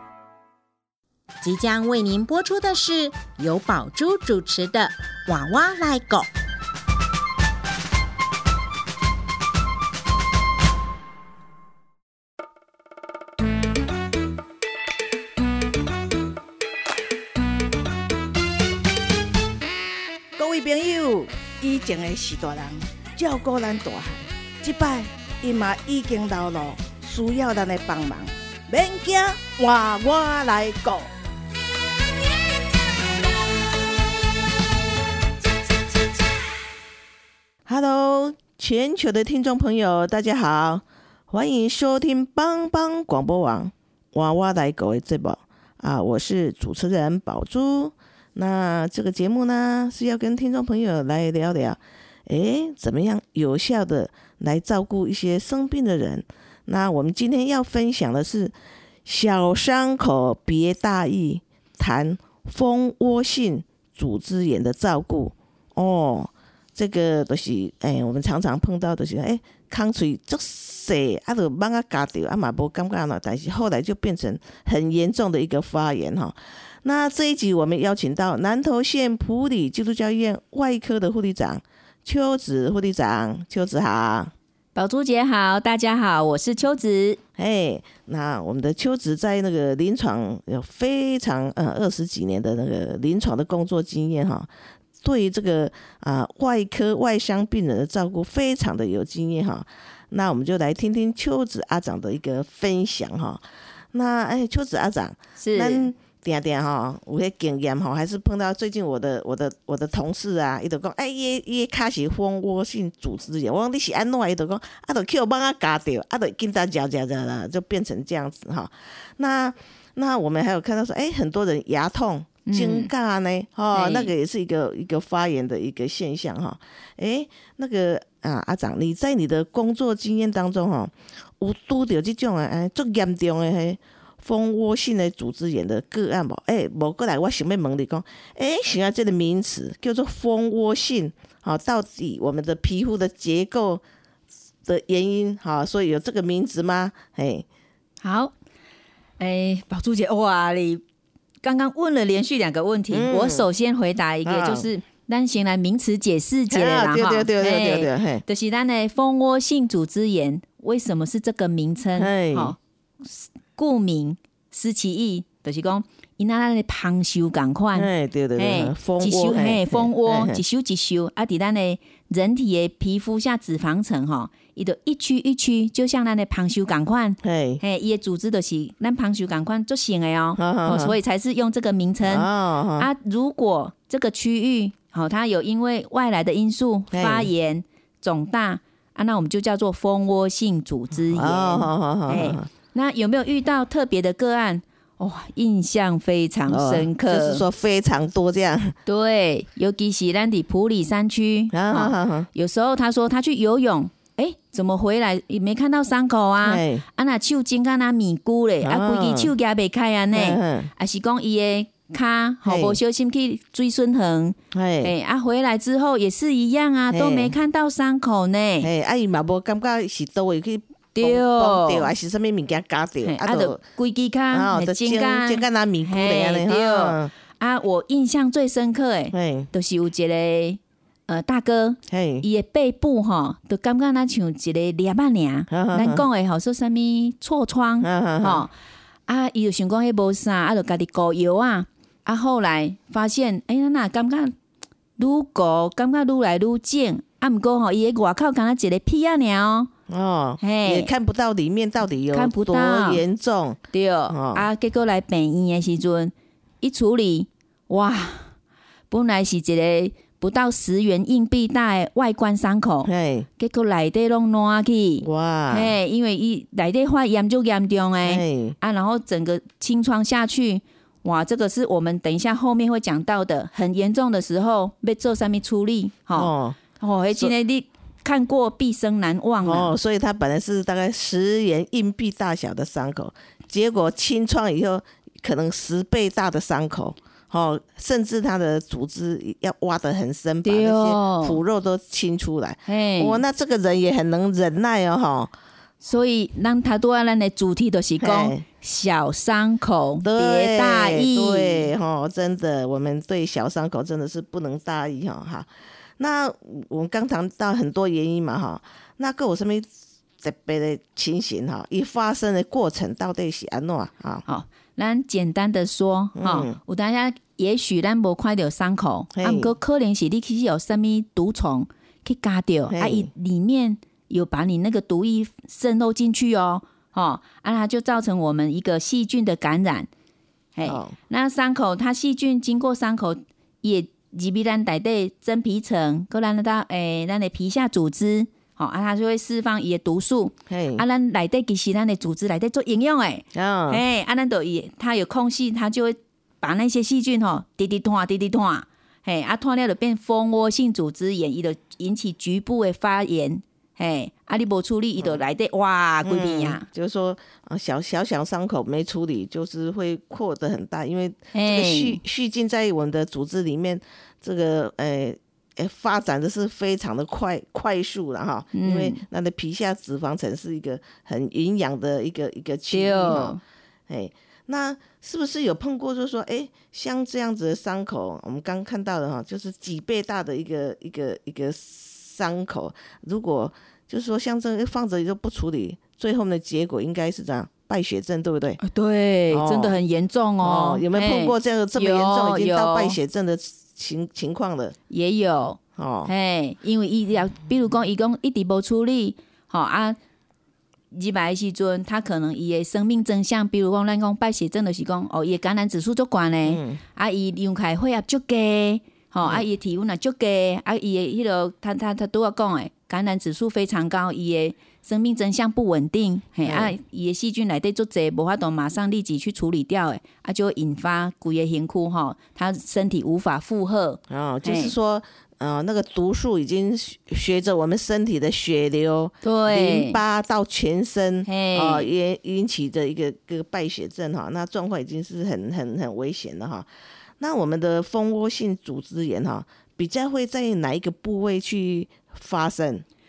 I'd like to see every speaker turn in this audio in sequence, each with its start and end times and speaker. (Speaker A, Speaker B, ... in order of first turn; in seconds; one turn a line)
Speaker A: 1.4-6.3
Speaker B: 20.4-31.1
Speaker B: 37.7-84.3
Speaker C: 84.8-87.2
Speaker B: 87.4-94.5
Speaker B: 95.0-143.8
Speaker C: 105.4-105.9
Speaker C: 122.5-122.9
Speaker C: 123.7-124.1
Speaker B: 144.6-147.5
Speaker C: 148.0-148.3
Speaker C: 149.2-150.8
Speaker C: 151.4-197.4
Speaker B: 152.9-153.5
Speaker B: 154.3-154.7
Speaker B: 156.5-158.2
Speaker B: 162.0-162.6
Speaker B: 167.7-170.4
Speaker B: 177.2-177.6
Speaker B: 180.4-180.9
Speaker B: 182.0-182.9
Speaker B: 186.9-187.3
Speaker B: 191.1-192.5
Speaker B: 196.5-198.8
Speaker C: 198.9-218.7
Speaker B: 201.5-202.3
Speaker B: 206.4-206.8
Speaker B: 208.6-209.3
Speaker B: 210.1-210.7
Speaker B: 212.4-212.8
Speaker B: 214.5-214.9
Speaker B: 216.9-217.3
Speaker B: 218.6-223.6
Speaker C: 220.9-221.9
Speaker C: 223.0-238.5
Speaker B: 224.3-227.1
Speaker B: 229.1-229.5
Speaker B: 231.9-232.2
Speaker B: 235.5-236.1
Speaker B: 237.8-238.5
Speaker C: 239.1-244.3
Speaker C: 245.0-249.7
Speaker B: 249.9-254.5
Speaker C: 250.4-250.9
Speaker C: 252.1-253.0
Speaker C: 253.7-258.3
Speaker C: 258.9-279.7
Speaker B: 262.9-263.3
Speaker B: 265.0-265.8
Speaker B: 268.0-268.6
Speaker B: 276.1-276.6
Speaker B: 279.4-295.3
Speaker C: 290.4-291.4
Speaker C: 292.7-293.2
Speaker C: 295.8-301.7
Speaker B: 298.0-298.4
Speaker B: 300.0-309.7
Speaker B: 310.2-314.2
Speaker C: 314.3-329.9
Speaker B: 316.2-316.6
Speaker B: 319.1-319.5
Speaker B: 322.7-323.1
Speaker C: 330.6-356.7
Speaker B: 330.7-330.9
Speaker B: 340.5-340.9
Speaker B: 343.3-343.8
Speaker B: 356.1-388.6
Speaker C: 361.3-362.0
Speaker C: 368.5-369.0
Speaker C: 372.7-373.4
Speaker C: 388.6-393.0
Speaker B: 389.3-389.8
Speaker B: 390.4-394.8
Speaker C: 394.9-400.0
Speaker B: 395.8-396.1
Speaker C: 400.9-424.8
Speaker B: 406.5-406.8
Speaker B: 416.4-416.7
Speaker B: 424.1-436.7
Speaker C: 429.2-430.0
Speaker C: 431.3-431.9
Speaker B: 437.2-442.8